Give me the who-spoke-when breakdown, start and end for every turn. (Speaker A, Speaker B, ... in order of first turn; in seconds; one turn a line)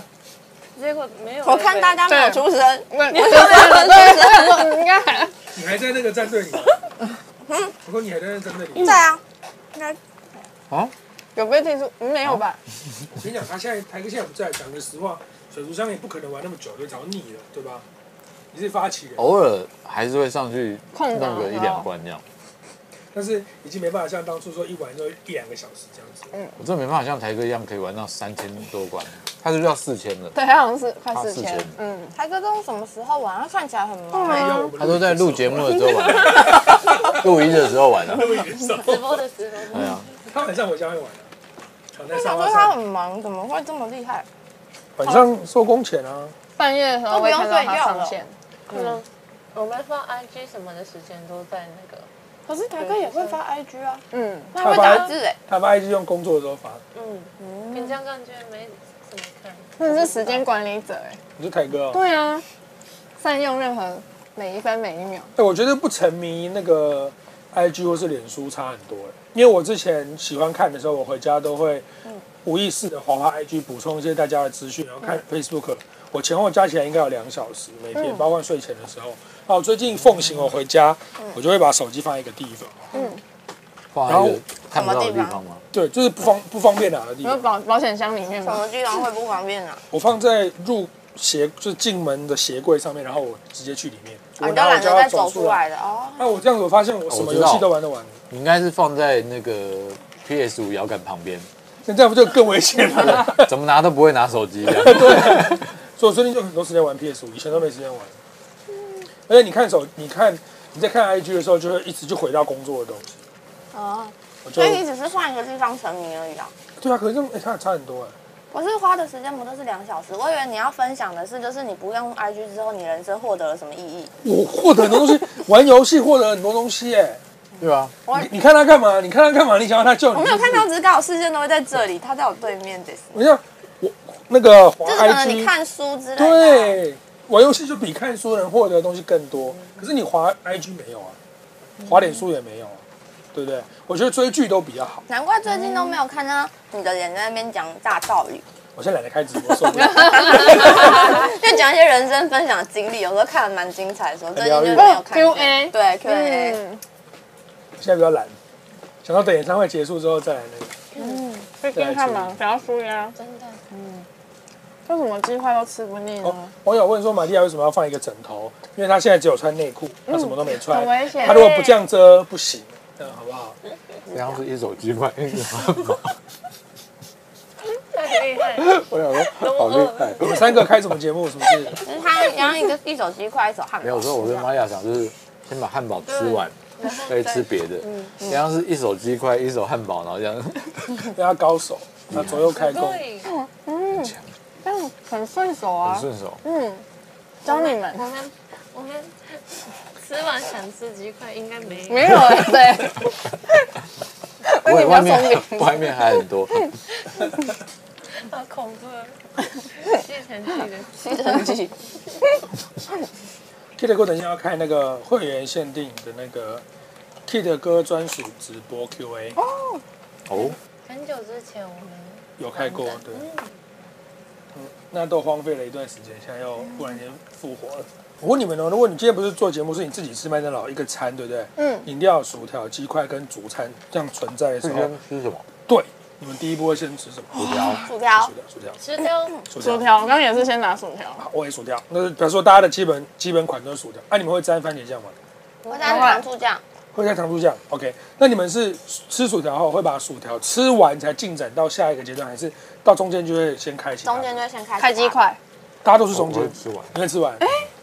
Speaker A: 0.7-2.0
Speaker B: 1.4-4.8
Speaker C: 2.1-5.3
Speaker A: 3.1-3.8
Speaker D: 5.5-6.8
Speaker B: 7.5-7.7
Speaker D: 7.8-9.0
Speaker B: 8.8-9.2
Speaker C: 11.3-12.6
Speaker D: 13.1-17.8
Speaker D: 18.5-19.4
Speaker E: 19.2-22.2
Speaker C: 20.9-21.9
Speaker D: 23.1-26.4
Speaker C: 26.3-26.6
Speaker E: 26.6-30.4
Speaker C: 30.3-32.1
Speaker E: 31.1-31.8
Speaker B: 32.1-34.7
Speaker C: 34.1-34.7
Speaker D: 34.2-37.3
Speaker E: 34.8-38.3
Speaker D: 38.0-39.2
Speaker A: 38.8-40.2
Speaker E: 39.7-40.1
Speaker D: 40.2-41.3
Speaker D: 41.9-42.8
Speaker B: 42.1-44.2
Speaker D: 45.0-46.3
Speaker C: 46.6-49.0
Speaker B: 47.1-48.2
Speaker A: 48.7-52.1
Speaker B: 52.5-55.4
Speaker C: 52.7-53.4
Speaker C: 54.1-54.6
Speaker D: 54.6-56.8
Speaker A: 54.6-55.2
Speaker A: 56.9-60.1
Speaker B: 57.4-58.0
Speaker C: 59.8-61.2
Speaker B: 59.9-60.5
Speaker D: 61.4-62.0
Speaker C: 61.9-62.4
Speaker C: 63.2-65.3
Speaker D: 65.3-71.9
Speaker D: 72.4-82.9
Speaker C: 82.9-83.2
Speaker E: 83.9-85.6
Speaker D: 84.1-84.4
Speaker B: 84.7-85.4
Speaker D: 85.7-87.5
Speaker C: 87.2-88.6
Speaker B: 88.3-89.8
Speaker D: 89.9-95.6
Speaker B: 94.4-96.3
Speaker D: 96.2-98.2
Speaker E: 97.1-97.7
Speaker E: 98.3-101.5
Speaker D: 101.9-103.5
Speaker E: 103.0-105.6
Speaker D: 104.6-108.2
Speaker D: 109.3-113.1
Speaker B: 113.7-116.5
Speaker D: 114.4-114.8
Speaker D: 116.8-118.1
Speaker B: 118.5-124.1
Speaker D: 124.2-127.2
Speaker E: 127.6-127.9
Speaker D: 128.1-130.7
Speaker B: 130.1-133.2
Speaker D: 133.1-135.5
Speaker B: 134.8-136.8
Speaker D: 136.2-141.2
Speaker D: 141.8-142.8
Speaker D: 143.3-145.1
Speaker B: 145.1-148.4
Speaker C: 145.5-145.9
Speaker D: 148.8-150.7
Speaker C: 149.7-151.1
Speaker B: 150.2-156.6
Speaker D: 154.3-154.9
Speaker C: 154.7-156.8
Speaker D: 157.8-158.3
Speaker D: 159.0-160.8
Speaker A: 160.9-161.2
Speaker B: 161.0-161.4
Speaker C: 161.2-163.2
Speaker D: 161.7-162.4
Speaker A: 163.2-163.6
Speaker C: 163.7-164.1
Speaker C: 164.8-166.5
Speaker D: 166.2-173.6
Speaker C: 170.1-171.5
Speaker A: 171.2-171.9
Speaker E: 174.1-176.2
Speaker A: 177.9-180.5
Speaker E: 178.6-180.7
Speaker D: 180.2-181.8
Speaker B: 181.8-184.5
Speaker E: 183.8-186.5
Speaker A: 186.1-187.1
Speaker C: 186.9-187.3
Speaker E: 187.1-191.1
Speaker A: 187.8-188.2
Speaker D: 191.1-193.0
Speaker E: 192.1-192.5
Speaker A: 192.5-193.3
Speaker C: 193.3-196.8
Speaker E: 193.9-194.3
Speaker E: 195.8-196.4
Speaker C: 197.4-198.0
Speaker A: 197.4-202.4
Speaker C: 201.9-203.3
Speaker C: 204.4-206.7
Speaker E: 204.6-206.7
Speaker A: 208.1-209.2
Speaker A: 209.7-211.2
Speaker B: 210.9-211.7
Speaker D: 213.8-216.6
Speaker D: 217.3-219.4
Speaker C: 219.4-219.8
Speaker E: 220.3-220.6
Speaker A: 220.4-223.6
Speaker D: 222.4-223.3
Speaker D: 224.5-234.9
Speaker C: 231.6-231.9
Speaker E: 234.6-235.4
Speaker D: 235.7-237.6
Speaker E: 237.3-237.8
Speaker C: 237.4-237.9
Speaker B: 237.8-238.3
Speaker D: 238.1-238.8
Speaker A: 238.8-239.4
Speaker D: 239.5-239.9
Speaker C: 239.6-241.2
Speaker D: 241.2-245.2
Speaker A: 245.6-246.2
Speaker B: 245.7-246.6
Speaker C: 245.8-246.2
Speaker D: 246.9-254.4
Speaker B: 254.0-255.3
Speaker C: 254.8-255.4
Speaker D: 255.8-257.4
Speaker E: 256.1-257.6
Speaker C: 257.4-257.7